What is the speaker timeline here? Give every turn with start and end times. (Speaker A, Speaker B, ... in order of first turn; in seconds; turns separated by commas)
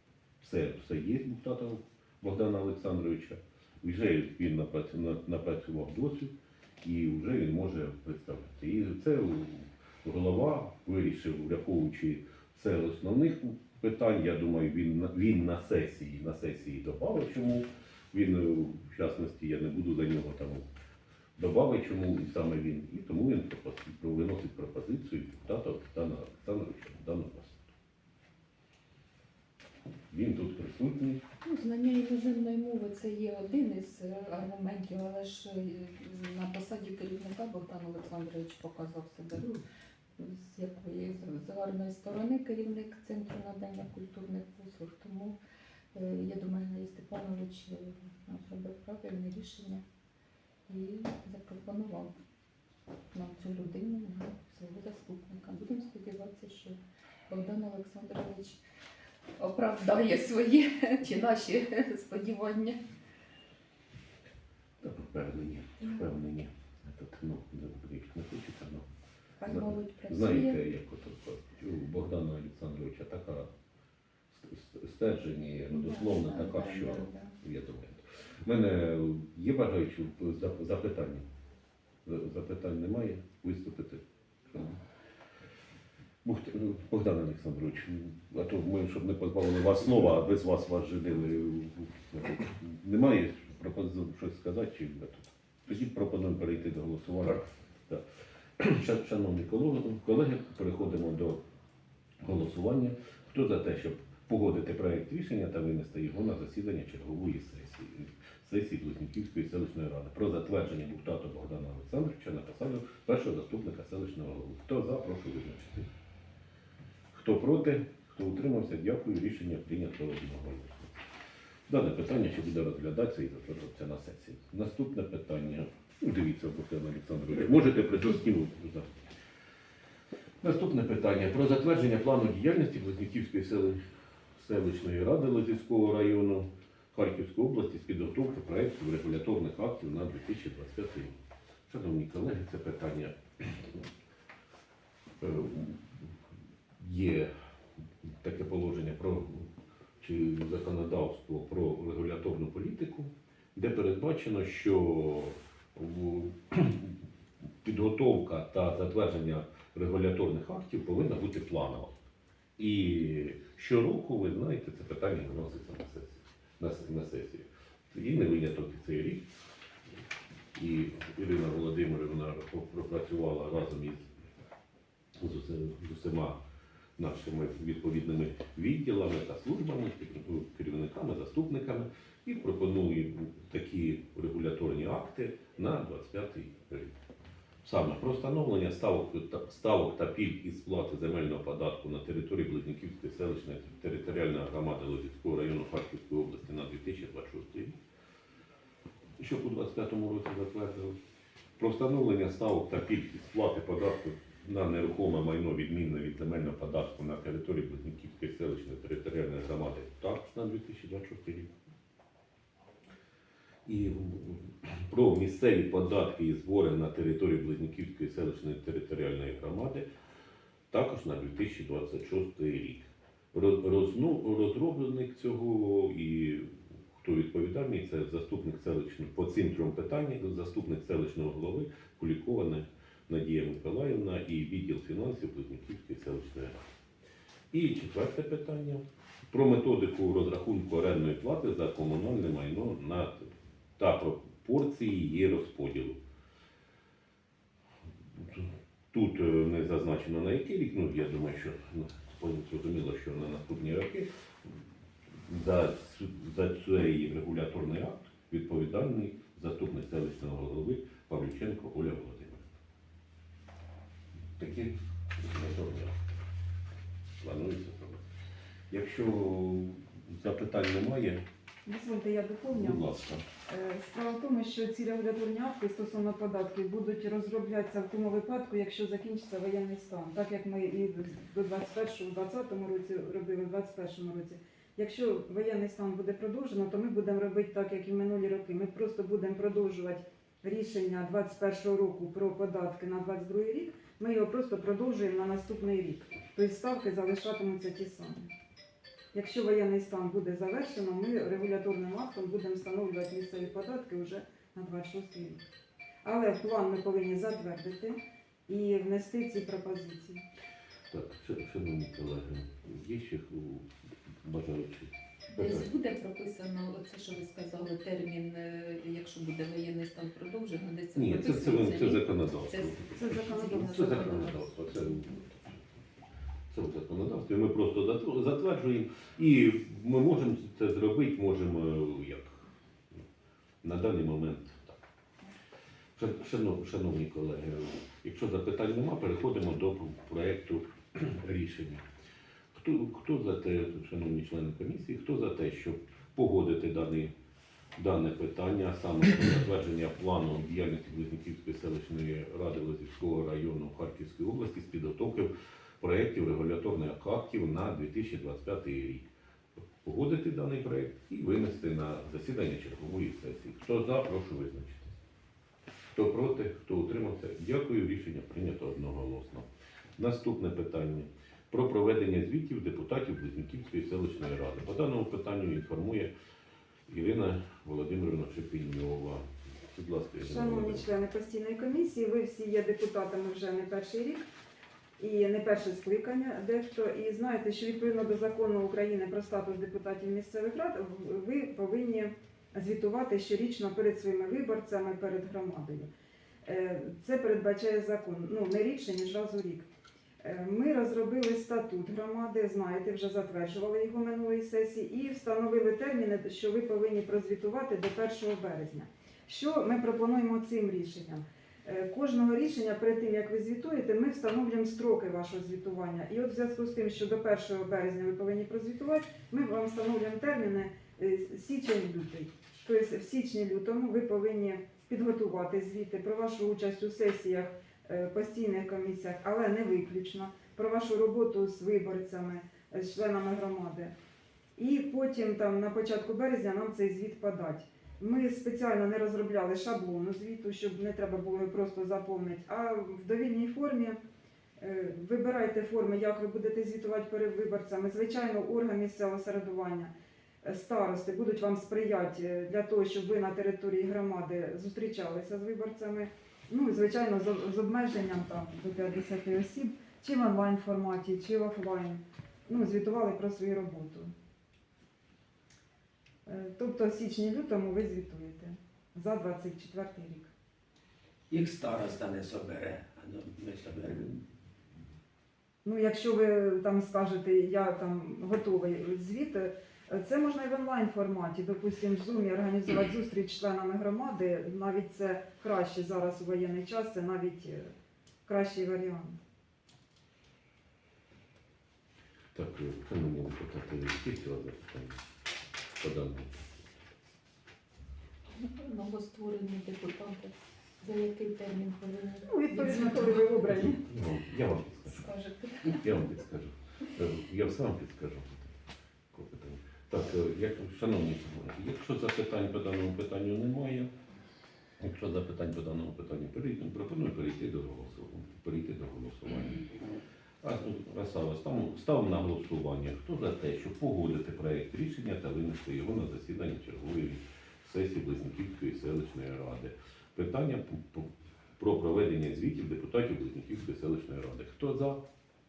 Speaker A: 0.4-20.7, Speaker A: 21.4-27.7, Speaker A: 30.1-31.2, Speaker B: 31.4-39.6, Speaker B: 40.2-45.4, Speaker B: 45.9-49.8, Speaker B: 50.7-52.1, Speaker B: 53.1-58.6, Speaker B: 59.4-62.8, Speaker A: 64.8-68.9, Speaker B: 65.8-66.1, Speaker B: 69.4-70.6, Speaker A: 69.4-73.5, Speaker A: 74.3-81.2, Speaker B: 75.7-77.3, Speaker A: 82.0-84.8, Speaker A: 86.2-98.0, Speaker A: 98.6-101.4, Speaker A: 102.2-115.9, Speaker A: 117.1-121.0, Speaker A: 121.7-128.9, Speaker A: 130.4-133.8, Speaker A: 134.3-143.8, Speaker A: 145.2-146.1, Speaker A: 146.8-147.3, Speaker A: 148.0-156.9, Speaker A: 157.6-162.0, Speaker A: 162.6-169.3, Speaker A: 170.5-174.1, Speaker A: 175.2-176.4, Speaker A: 177.0-186.9, Speaker A: 187.6-197.8, Speaker A: 199.2-201.0, Speaker A: 201.6-211.5, Speaker A: 213.7-219.9, Speaker A: 220.7-236.6, Speaker A: 237.5-246.0, Speaker A: 248.2-254.5, Speaker A: 255.2-262.5, Speaker A: 264.4-265.9, Speaker A: 267.2-268.1, Speaker A: 268.7-271.2, Speaker C: 271.6-272.9, Speaker A: 272.5-273.2, Speaker C: 273.5-298.3, Speaker C: 299.1-305.4, Speaker C: 306.0-310.2, Speaker A: 310.9-313.7, Speaker A: 314.2-315.7, Speaker B: 315.3-325.0, Speaker A: 320.9-325.4, Speaker C: 322.9-324.3, Speaker A: 326.5-333.0, Speaker A: 333.6-334.8, Speaker A: 335.9-341.9, Speaker A: 342.5-347.1, Speaker A: 347.8-359.1, Speaker A: 359.8-365.0, Speaker A: 365.9-376.1, Speaker A: 376.9-380.9, Speaker C: 380.2-384.3, Speaker C: 385.0-395.9, Speaker C: 396.4-399.6, Speaker C: 400.2-433.9, Speaker C: 434.6-444.0, Speaker C: 444.6-464.1, Speaker C: 466.2-470.3, Speaker D: 471.3-474.1, Speaker C: 475.6-487.7, Speaker C: 488.2-489.2, Speaker A: 492.3-495.0, Speaker A: 495.8-496.5, Speaker B: 498.4-503.7, Speaker C: 502.3-503.8, Speaker A: 503.8-505.1, Speaker B: 504.9-505.8, Speaker A: 505.6-508.6, Speaker A: 509.1-513.9, Speaker A: 514.8-519.7, Speaker A: 520.4-535.0